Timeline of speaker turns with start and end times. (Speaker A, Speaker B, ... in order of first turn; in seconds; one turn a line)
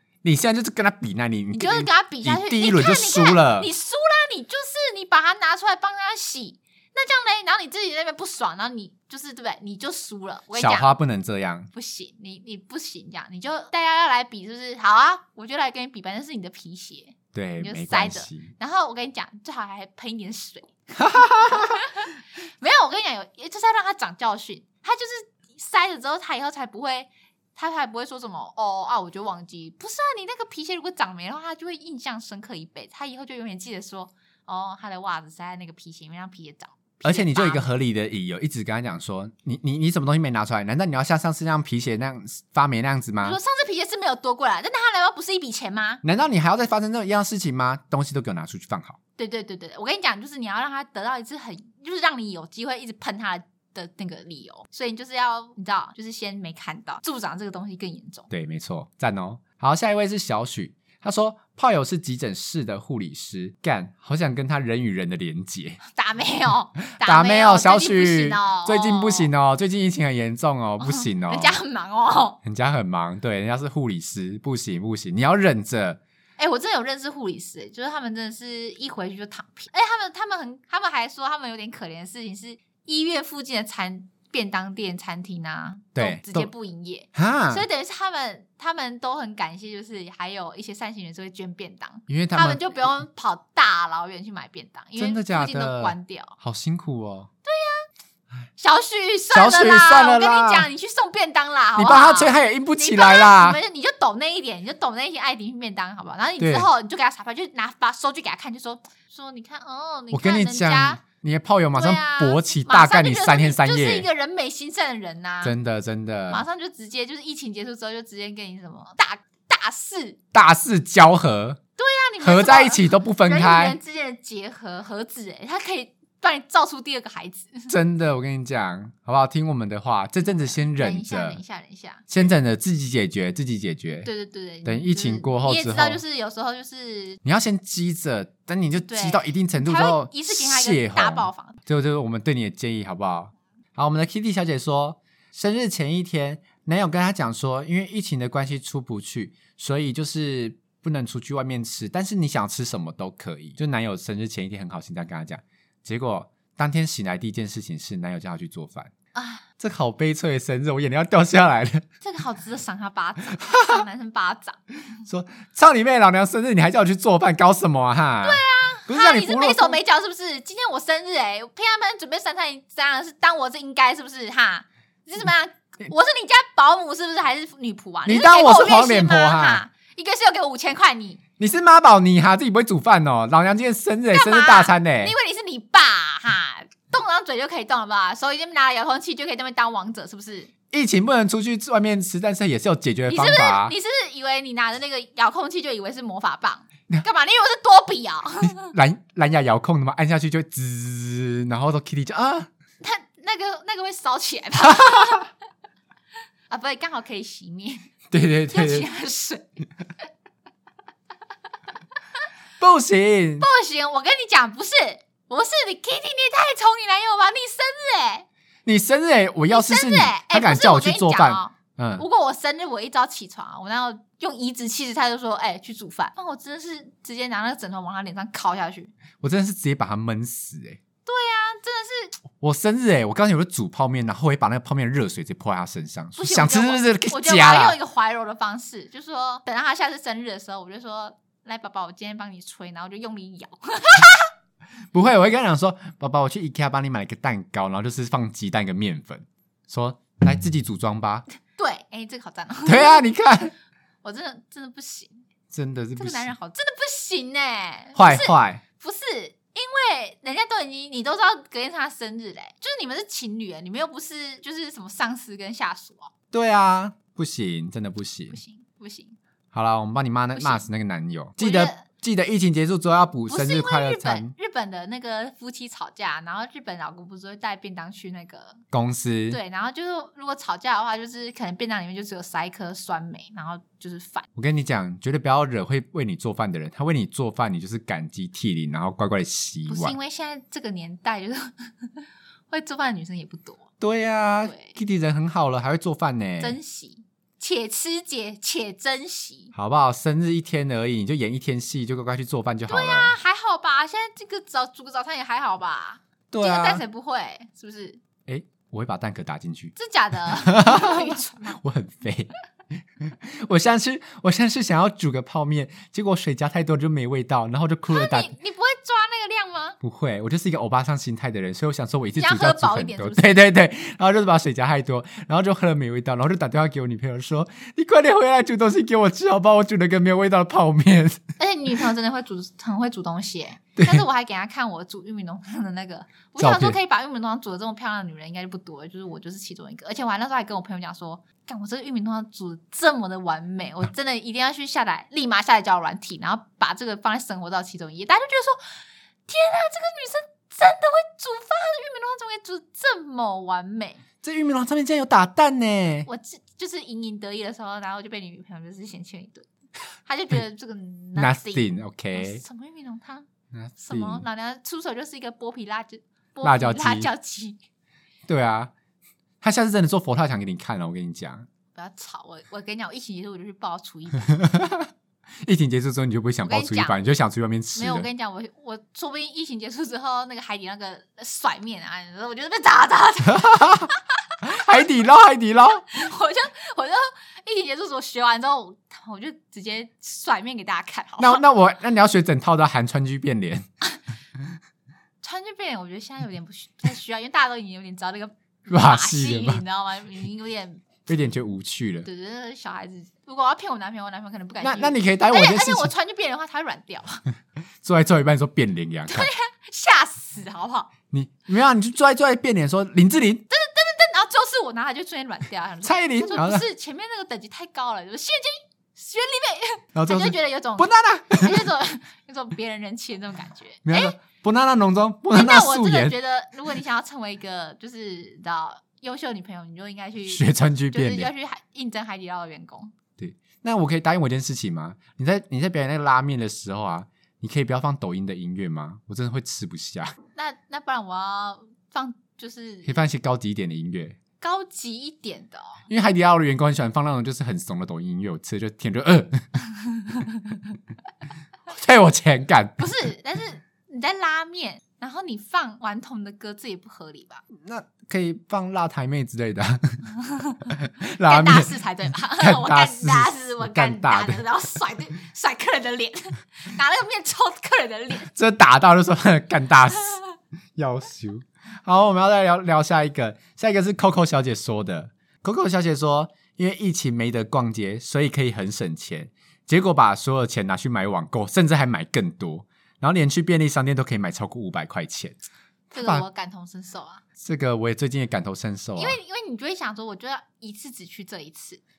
Speaker A: 0.2-3.7
Speaker B: 1.5-10.9
Speaker A: 10.5-11.7
Speaker B: 11.7-37.7
Speaker A: 17.3-18.5
Speaker A: 21.0-21.8
Speaker A: 37.0-43.4
Speaker B: 43.2-46.0
Speaker A: 46.0-49.0
Speaker B: 49.2-58.3
Speaker A: 58.3-65.8
Speaker B: 65.9-69.3
Speaker A: 67.0-71.6
Speaker B: 70.8-72.4
Speaker A: 72.4-76.0
Speaker B: 76.4-96.3
Speaker A: 86.0-86.5
Speaker A: 87.1-87.7
Speaker A: 92.1-92.7
Speaker A: 95.0-97.3
Speaker B: 97.5-97.8
Speaker B: 98.6-111.0
Speaker A: 99.3-100.7
Speaker A: 101.7-103.6
Speaker A: 106.4-106.7
Speaker A: 110.1-114.1
Speaker B: 111.7-115.5
Speaker A: 115.4-116.4
Speaker B: 116.3-120.2
Speaker A: 120.3-121.6
Speaker B: 121.8-127.7
Speaker A: 122.2-123.8
Speaker A: 127.7-131.4
Speaker B: 130.2-132.2
Speaker A: 132.1-134.1
Speaker B: 134.0-137.2
Speaker A: 134.6-136.0
Speaker A: 137.2-158.9
Speaker B: 138.8-141.6
Speaker B: 159.1-159.4
Speaker A: 159.6-161.8
Speaker B: 162.0-164.6
Speaker A: 163.4-163.8
Speaker A: 165.1-169.8
Speaker B: 168.2-181.2
Speaker A: 178.0-179.6
Speaker A: 181.4-185.1
Speaker B: 184.1-190.5
Speaker A: 190.7-193.7
Speaker B: 193.1-198.7
Speaker A: 198.4-202.5
Speaker B: 202.8-205.3
Speaker B: 206.5-207.8
Speaker A: 208.1-208.9
Speaker B: 208.5-209.6
Speaker A: 212.6-213.5
Speaker B: 213.4-218.2
Speaker A: 218.7-222.0
Speaker B: 219.5-228.9
Speaker A: 229.2-230.8
Speaker B: 231.1-232.2
Speaker A: 232.4-237.8
Speaker B: 236.2-244.2
Speaker A: 244.9-251.2
Speaker B: 251.5-253.0
Speaker A: 252.7-253.5
Speaker B: 254.0-255.2
Speaker A: 255.5-256.3
Speaker B: 255.9-266.1
Speaker A: 257.9-258.6
Speaker A: 266.3-268.4
Speaker B: 268.3-269.1
Speaker A: 269.5-274.3
Speaker B: 270.4-270.6
Speaker B: 271.4-271.8
Speaker B: 273.3-278.6
Speaker A: 278.7-279.4
Speaker B: 279.3-284.2
Speaker A: 284.4-289.9
Speaker B: 289.7-293.7
Speaker A: 293.8-296.6
Speaker B: 294.4-294.8
Speaker B: 296.4-299.5
Speaker A: 299.5-303.1
Speaker B: 302.7-308.0
Speaker A: 306.3-306.8
Speaker A: 308.3-309.7
Speaker B: 309.8-311.6
Speaker A: 310.2-312.3
Speaker A: 313.0-318.3
Speaker B: 317.9-319.8
Speaker A: 319.8-331.2
Speaker B: 322.2-323.4
Speaker B: 331.4-354.0
Speaker A: 333.8-334.0
Speaker A: 336.4-336.8
Speaker A: 354.2-356.1
Speaker B: 356.1-359.5
Speaker B: 360.0-363.3
Speaker A: 361.1-362.4
Speaker A: 363.5-364.2
Speaker B: 363.8-367.6
Speaker A: 366.4-367.1
Speaker A: 368.3-368.7
Speaker A: 369.4-371.5
Speaker B: 371.7-374.4
Speaker A: 374.4-374.9
Speaker A: 375.4-378.1
Speaker B: 376.4-377.0
Speaker B: 377.8-384.0
Speaker A: 383.3-383.9
Speaker A: 384.4-385.8
Speaker B: 384.6-384.9
Speaker B: 385.8-391.4
Speaker A: 391.2-393.6
Speaker B: 395.2-400.9
Speaker A: 398.7-399.6
Speaker A: 401.1-402.1
Speaker B: 402.0-407.3
Speaker A: 404.6-405.9
Speaker A: 407.8-409.3
Speaker B: 409.1-410.9
Speaker A: 411.1-413.4
Speaker B: 413.5-424.1
Speaker A: 415.8-416.6
Speaker A: 419.9-421.7
Speaker A: 423.8-426.1
Speaker B: 425.3-432.9
Speaker A: 430.2-431.3
Speaker A: 433.2-440.1
Speaker B: 440.3-443.0
Speaker A: 442.8-444.2
Speaker B: 444.4-445.8
Speaker A: 445.9-449.5
Speaker A: 451.7-452.8
Speaker B: 452.8-457.4
Speaker A: 457.6-460.1
Speaker B: 460.3-468.3
Speaker A: 460.8-461.7
Speaker A: 462.4-464.4
Speaker A: 468.3-470.2
Speaker A: 470.8-485.4
Speaker A: 485.9-486.2
Speaker B: 485.9-487.2
Speaker A: 487.4-489.2
Speaker B: 488.9-491.8